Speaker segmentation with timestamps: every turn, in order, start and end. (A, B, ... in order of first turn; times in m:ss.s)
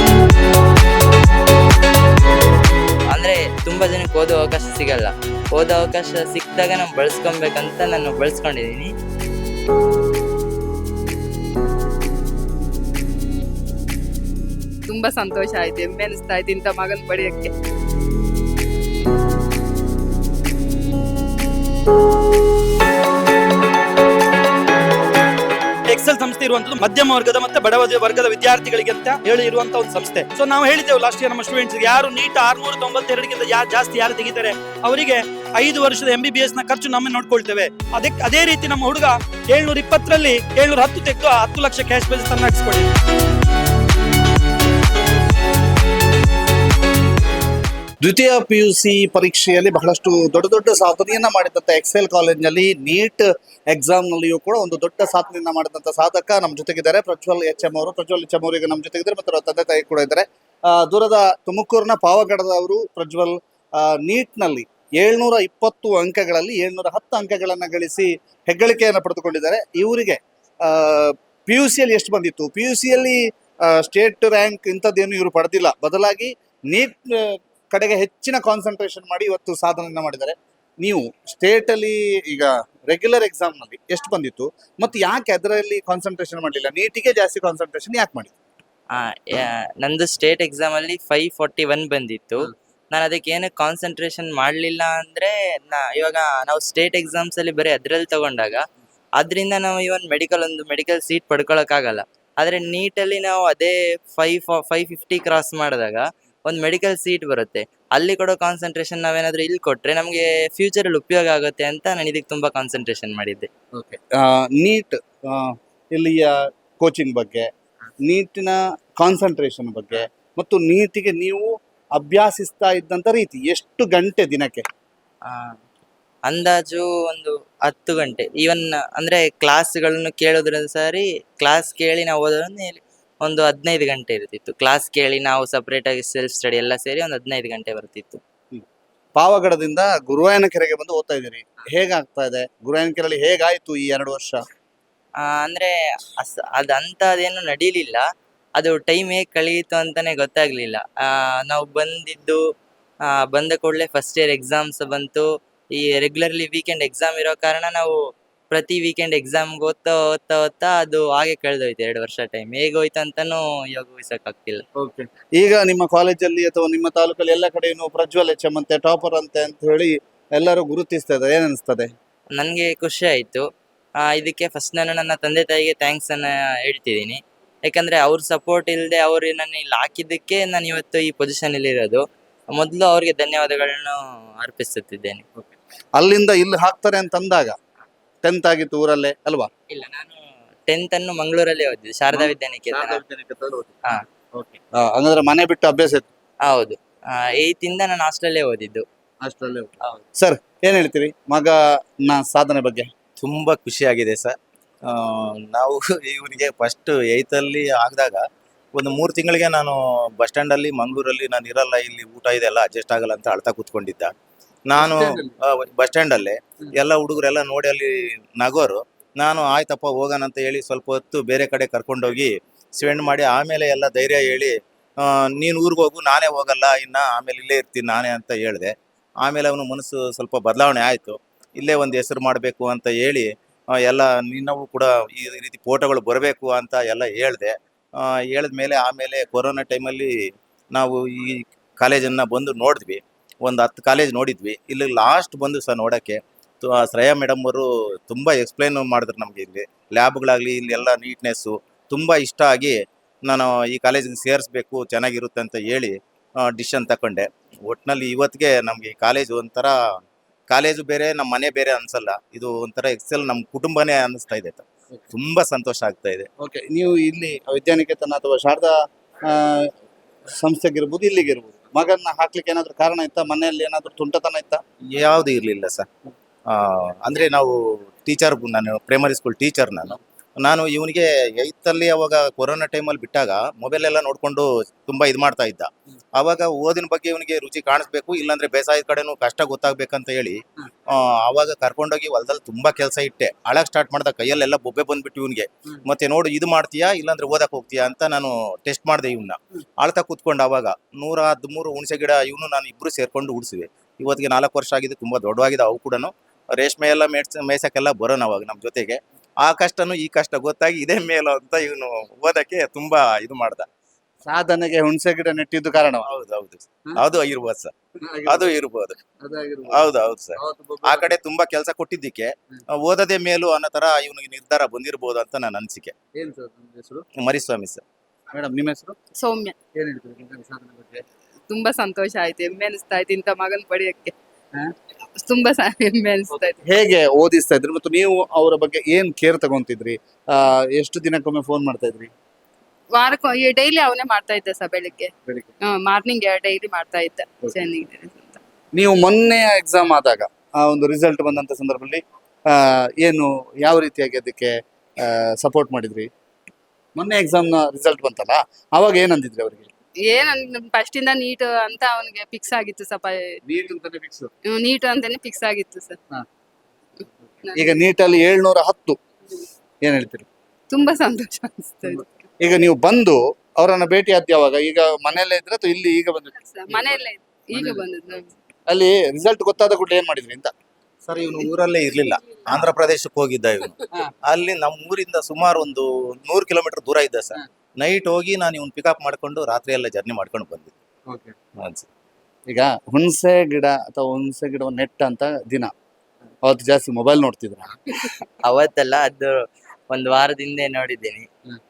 0:03.1-0:08.9 A
0:14.9-0:17.5 B
0:25.9-0:42.9 C
0:48.0-1:28.3 D
1:28.9-1:38.6 A
1:39.2-1:53.5 A
1:53.8-1:57.5 D
1:58.1-2:04.6 D
2:05.2-2:05.6 A
2:06.3-2:18.2 A
2:19.2-2:24.4 D
2:25.2-2:28.0 A
2:28.6-2:32.4 A
2:33.1-2:37.9 A
2:38.5-2:44.6 A
2:44.8-2:51.9 D
2:52.3-2:53.4 A
2:54.0-3:05.2 A
3:05.4-3:07.5 D
3:08.2-3:09.5 D
3:09.7-3:10.2 A
3:10.7-3:13.0 A
3:12.1-3:13.7 D
3:14.4-3:16.1 D
3:16.4-3:18.8 A
3:19.2-3:22.9 D
3:23.2-3:24.3 E
3:24.9-3:28.2 E
3:28.7-3:34.1 E
3:34.7-4:00.1 E
3:34.8-3:35.3 D
4:00.7-4:19.8 E
4:20.5-4:26.3 E
4:26.4-4:28.7 D
4:29.3-4:29.7 D
4:30.4-4:34.6 D
4:35.0-4:35.9 E
4:36.5-4:50.4 E
4:50.9-5:13.6 E
5:14.2-5:16.1 D
5:16.0-5:17.7 E
5:18.0-5:18.5 D
5:18.2-5:19.0 E
5:19.2-5:19.8 D
5:19.7-5:25.9 E
5:20.4-5:21.1 D
5:26.1-5:27.0 D
5:27.2-5:27.8 E
5:28.3-5:29.0 D
5:29.2-5:29.6 B
5:29.7-5:31.0 D
5:31.5-5:34.1 B
5:35.2-5:36.6 B
5:36.6-5:42.1 D
5:42.9-5:45.1 B
5:45.6-5:48.4 B
5:48.7-5:56.1 D
5:57.0-5:59.7 D
6:00.0-6:03.4 B
6:03.5-6:04.3 D
6:04.4-6:06.0 B
6:07.0-6:07.7 B
6:07.5-6:09.0 D
6:09.8-6:10.3 D
6:10.7-6:12.3 B
6:12.4-6:17.0 D
6:16.4-6:18.3 B
6:17.5-6:17.8 D
6:18.7-6:20.5 D
6:21.0-6:21.5 D
6:21.2-6:30.7 E
6:31.1-6:31.3 D
6:31.6-6:31.9 E
6:32.5-6:35.7 D
6:36.4-6:37.8 D
6:38.4-6:41.3 A